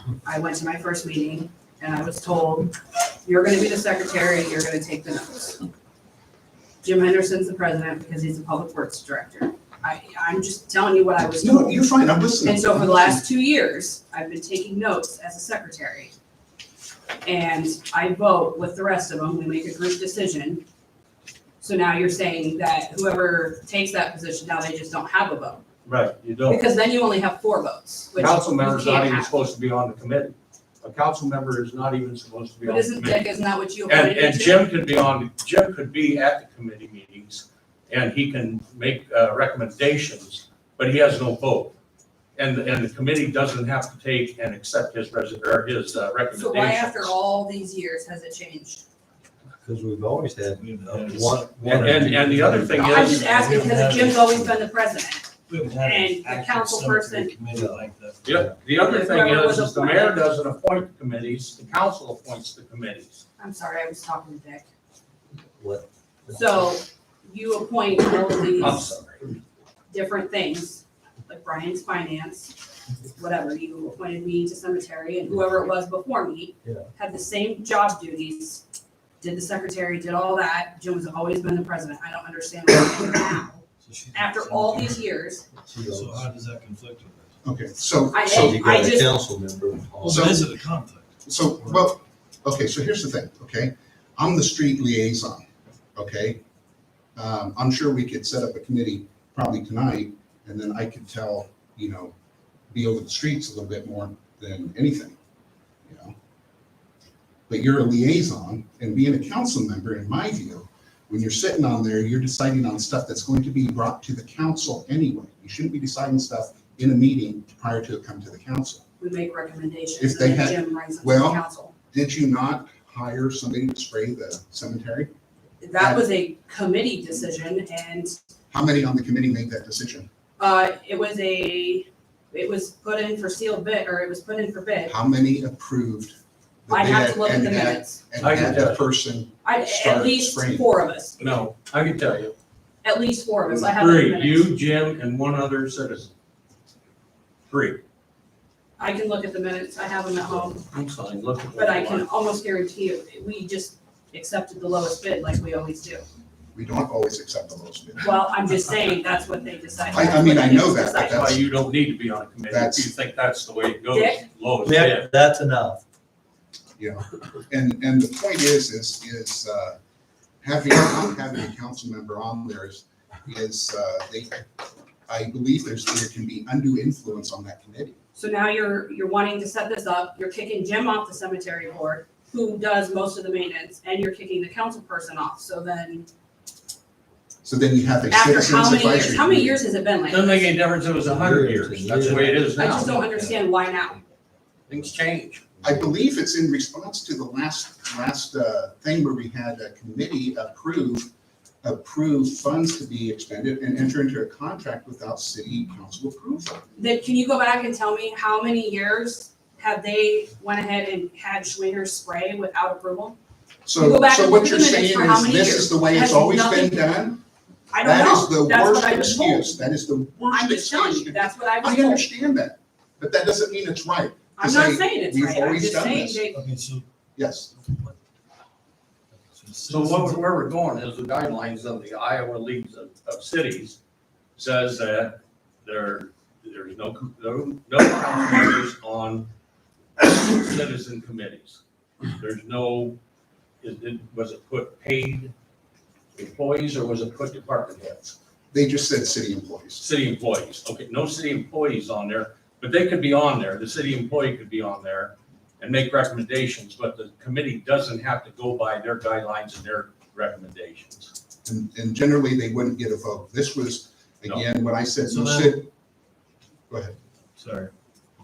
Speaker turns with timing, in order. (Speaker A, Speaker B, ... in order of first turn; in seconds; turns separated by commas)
Speaker A: 0.2-5.7, Speaker A: 6.8-11.8, Speaker B: 11.2-13.2, Speaker A: 12.4-16.1, Speaker A: 17.2-20.6, Speaker A: 21.6-25.6, Speaker C: 25.9-26.6, Speaker A: 26.5-29.3, Speaker C: 28.1-33.3, Speaker A: 32.6-34.6, Speaker C: 33.9-41.8, Speaker C: 42.4-47.1, Speaker A: 46.3-48.8, Speaker D: 49.6-52.9, Speaker E: 50.5-54.4, Speaker C: 51.6-53.8, Speaker A: 52.8-57.3, Speaker E: 55.5-58.5, Speaker D: 57.5-57.8, Speaker C: 58.2-63.2, Speaker A: 58.8-60.2, Speaker A: 63.4-64.7, Speaker D: 65.6-66.6, Speaker A: 66.3-68.9, Speaker D: 68.6-69.1, Speaker C: 68.6-69.1, Speaker A: 69.9-72.5, Speaker A: 73.1-78.6, Speaker A: 79.2-85.4, Speaker E: 83.8-85.0, Speaker D: 85.6-86.3, Speaker E: 85.8-87.4, Speaker B: 87.4-88.7, Speaker A: 88.1-89.2, Speaker D: 88.3-90.3, Speaker E: 90.0-91.8, Speaker B: 90.0-90.5, Speaker B: 91.2-95.4, Speaker B: 95.9-96.4, Speaker B: 97.2-102.1, Speaker B: 102.7-105.2, Speaker B: 105.8-106.1, Speaker B: 107.5-118.8, Speaker A: 119.0-121.7, Speaker B: 120.0-125.1, Speaker A: 125.6-128.1, Speaker B: 125.8-126.0, Speaker B: 128.5-130.1, Speaker A: 130.4-134.9, Speaker B: 134.9-140.7, Speaker A: 136.7-138.0, Speaker C: 138.2-138.8, Speaker A: 139.4-141.4, Speaker C: 141.2-142.3, Speaker A: 142.8-144.5, Speaker C: 143.5-146.1, Speaker C: 147.5-147.8, Speaker A: 148.8-150.7, Speaker C: 150.7-152.1, Speaker A: 151.6-156.1, Speaker B: 156.5-158.1, Speaker A: 158.0-161.3, Speaker B: 159.9-161.4, Speaker C: 161.1-165.1, Speaker B: 162.5-162.9, Speaker A: 163.9-164.2, Speaker D: 164.6-165.8, Speaker B: 166.8-169.8, Speaker B: 170.4-174.4, Speaker B: 175.1-178.0, Speaker A: 178.2-186.1, Speaker B: 187.4-189.6, Speaker A: 188.1-190.5, Speaker C: 190.1-193.1, Speaker D: 191.0-193.5, Speaker A: 192.5-194.0, Speaker C: 194.7-195.5, Speaker D: 195.6-195.9, Speaker B: 195.6-201.1, Speaker B: 201.6-206.6, Speaker A: 206.8-213.2, Speaker B: 213.6-217.2, Speaker A: 213.8-216.8, Speaker A: 217.7-219.7, Speaker B: 217.8-226.2, Speaker A: 220.3-222.1, Speaker A: 224.4-226.4, Speaker E: 226.3-226.9, Speaker B: 227.2-227.5, Speaker E: 227.5-228.0, Speaker E: 229.1-230.2, Speaker C: 229.7-233.8, Speaker C: 234.3-239.3, Speaker C: 240.0-241.6, Speaker C: 242.1-243.0, Speaker C: 243.6-245.3, Speaker C: 246.2-248.1, Speaker B: 248.5-249.8, Speaker C: 249.8-261.1, Speaker B: 261.4-265.7, Speaker E: 265.1-265.6, Speaker B: 266.7-266.9, Speaker E: 267.4-267.7